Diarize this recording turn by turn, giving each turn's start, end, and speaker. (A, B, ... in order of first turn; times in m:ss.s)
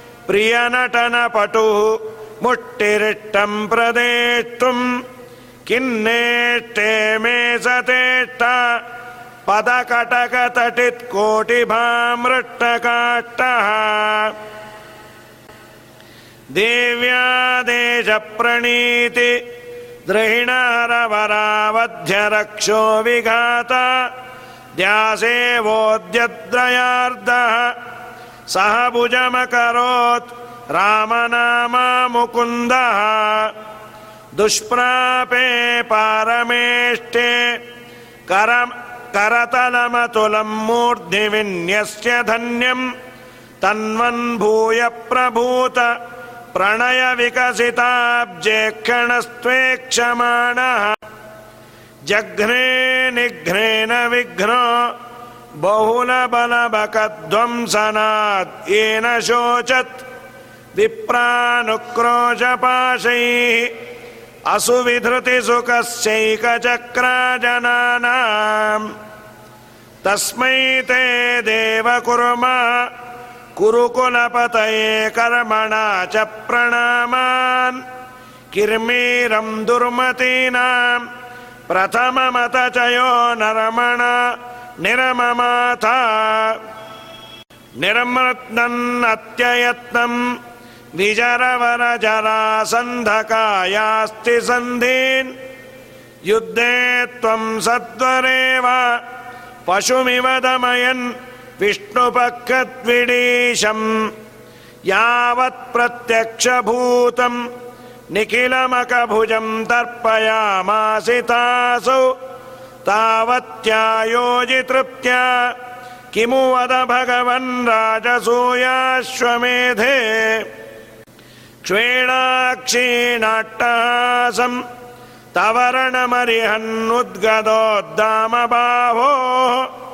0:00.3-0:05.0 A
0:05.7-0:08.8 A
0:09.5-0:14.4 A
0:16.5-0:19.5 A
0:20.1-0:24.1 A
0:24.8-0:27.8 A
0:28.5-0:33.6 A
0:34.3-0:37.6 A
0:38.3-0:42.9 A
0:43.6-0:46.0 A
0:46.5-0:51.0 A
0:52.1-0:55.0 A
0:55.6-1:00.0 A
1:00.7-1:03.8 A
1:04.5-1:08.9 A
1:10.0-1:12.9 A
1:13.6-1:17.8 A
1:18.5-1:21.1 A
1:21.7-1:26.6 A
1:27.8-1:30.3 A
1:31.0-1:35.4 A
1:36.2-1:39.0 A
1:39.7-1:44.1 A
1:44.9-1:47.5 A
1:48.1-1:52.2 A
1:52.8-1:55.6 A
1:56.1-2:00.5 A
2:01.6-2:04.6 A
2:05.3-2:09.7 A